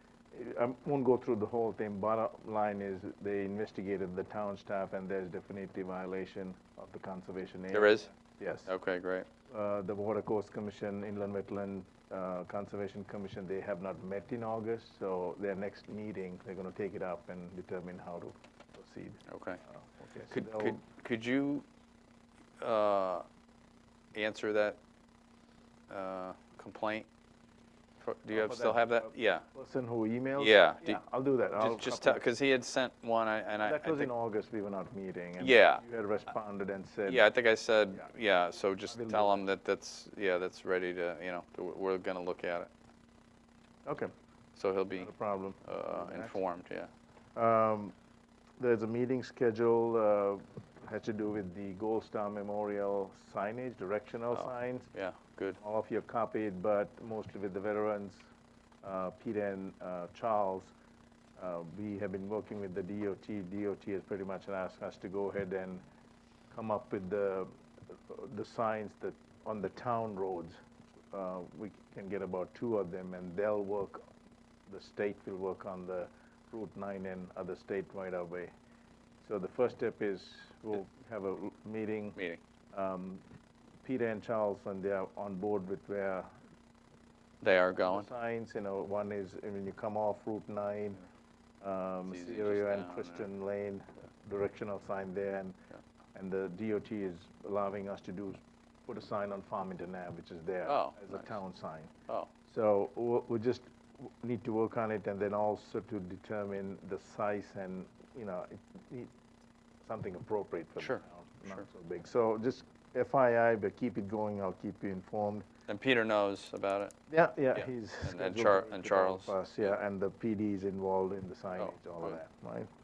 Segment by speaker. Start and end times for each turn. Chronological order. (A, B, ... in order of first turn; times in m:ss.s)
0:00.3-0:08.7 A
0:07.7-0:08.1 B
0:08.6-0:09.3 B
0:09.5-0:20.8 A
0:19.3-0:19.6 B
0:20.2-0:21.6 B
0:22.6-0:23.3 B
0:24.1-0:24.8 B
0:25.9-0:27.1 B
0:28.0-0:29.4 B
0:28.3-0:32.2 A
0:30.4-0:31.0 B
0:31.6-0:34.1 B
0:33.6-0:37.2 A
0:35.4-0:35.8 B
0:37.1-0:42.7 B
0:38.9-0:39.4 A
0:43.8-0:44.1 A
0:44.6-0:45.1 B
0:45.0-0:46.4 A
0:45.6-0:46.9 B
0:47.4-0:48.0 A
0:48.6-0:54.9 A
0:54.3-0:55.6 B
0:55.6-0:58.3 A
0:58.8-1:00.7 A
1:01.4-1:05.8 A
1:06.5-1:07.5 A
1:08.1-1:10.6 A
1:11.1-1:14.0 A
1:14.7-1:18.5 A
1:19.2-1:22.2 A
1:22.2-1:22.4 B
1:22.7-1:23.2 A
1:23.8-1:26.3 A
1:27.4-1:28.1 B
1:27.8-1:31.0 A
1:31.6-1:35.6 A
1:32.1-1:33.3 B
1:36.1-1:41.9 A
1:40.6-1:41.3 B
1:42.4-1:49.1 A
1:49.8-1:55.4 A
1:50.8-1:51.6 B
1:55.7-1:57.0 B
1:57.1-2:02.7 A
1:57.6-1:59.8 B
2:01.6-2:02.2 B